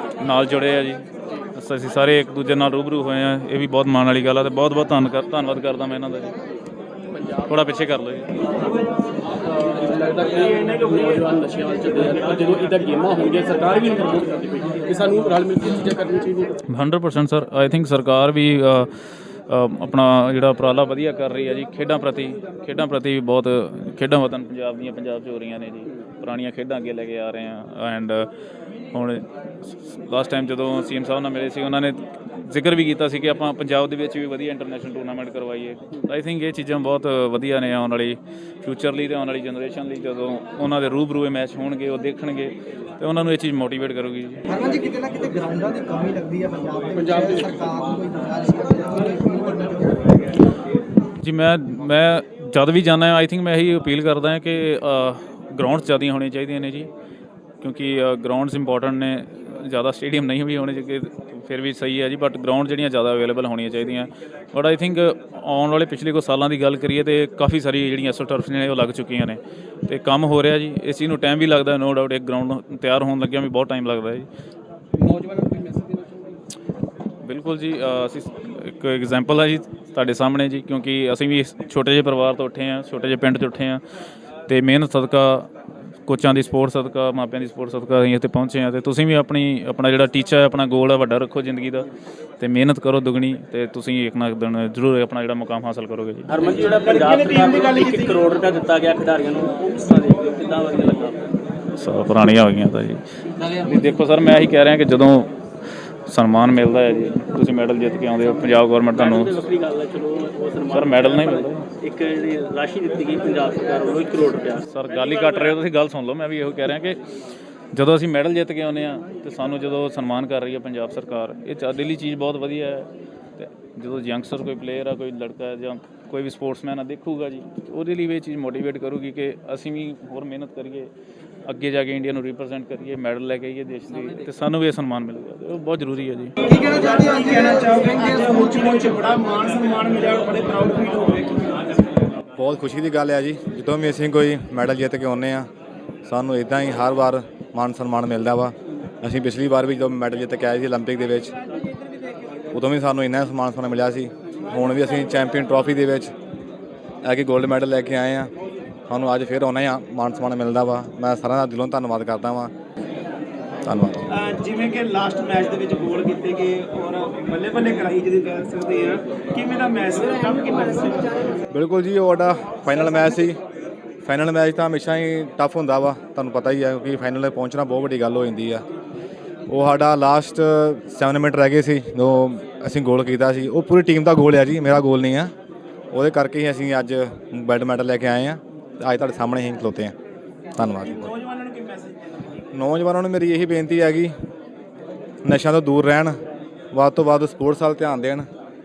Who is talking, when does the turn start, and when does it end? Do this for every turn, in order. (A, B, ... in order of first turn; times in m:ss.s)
0:00.2-0:06.4 A
0:07.2-0:07.4 B
0:07.5-0:08.3 A
0:09.5-0:16.6 B
0:16.7-0:18.9 A
0:19.5-0:28.3 A
0:28.9-0:44.4 A
0:44.5-0:50.1 C
0:47.0-0:47.8 B
0:51.2-0:56.9 A
0:57.6-1:14.3 A
1:15.0-1:16.3 B
1:17.2-1:23.8 A
1:24.5-1:25.5 A
1:26.1-1:31.9 A
1:32.4-1:36.3 A
1:36.3-1:41.3 B
1:36.6-1:38.2 D
1:41.8-1:45.3 A
1:46.1-1:49.4 A
1:48.9-1:55.6 B
1:50.7-1:51.7 A
1:54.7-1:57.0 A
1:57.8-2:10.9 A
2:11.5-2:16.4 A
2:16.4-2:21.8 D
2:16.4-2:19.0 C
2:22.4-2:25.5 E
2:26.1-2:31.3 E
2:32.5-2:36.1 E
2:37.0-2:38.3 E
2:38.9-2:42.5 E
2:43.6-2:44.0 E
2:44.1-2:51.2 D
2:51.5-2:53.4 E
2:54.0-2:58.6 E
2:59.5-3:05.3 E
3:05.9-3:09.9 E
3:10.6-3:11.2 E
3:10.8-3:12.0 D
3:12.5-3:14.1 E
3:15.2-3:16.2 E
3:16.7-3:18.3 E